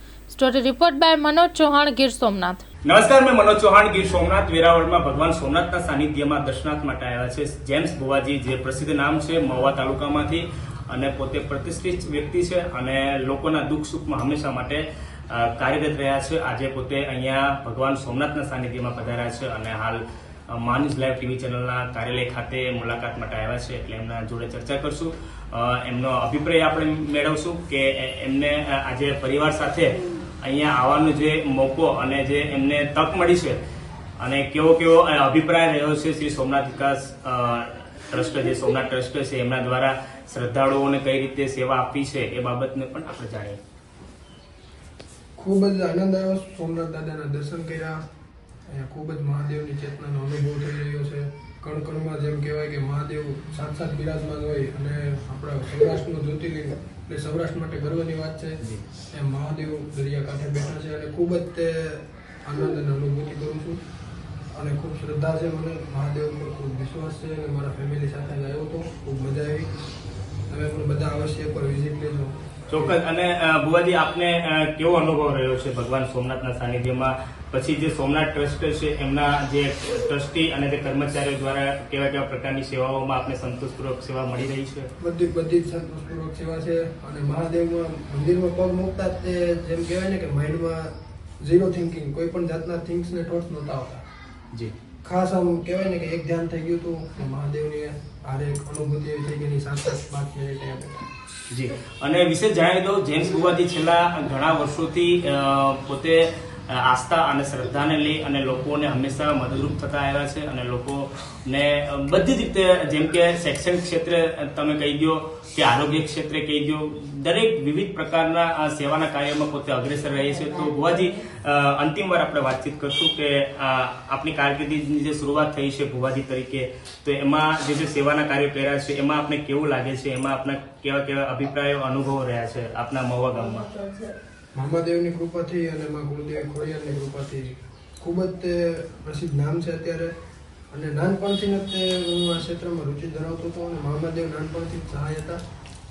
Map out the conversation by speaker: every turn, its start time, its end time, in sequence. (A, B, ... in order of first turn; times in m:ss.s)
0:00.3-0:02.6 A
0:02.9-0:33.6 B
0:34.2-0:43.6 B
0:45.4-0:48.0 C
0:48.7-0:58.6 C
0:59.1-1:03.8 C
1:04.6-1:09.7 C
1:10.5-1:13.0 C
1:12.7-1:24.9 B
1:25.0-1:34.0 C
1:35.0-1:41.1 C
1:41.5-2:13.7 B
2:14.6-2:20.1 C
2:20.7-2:25.4 C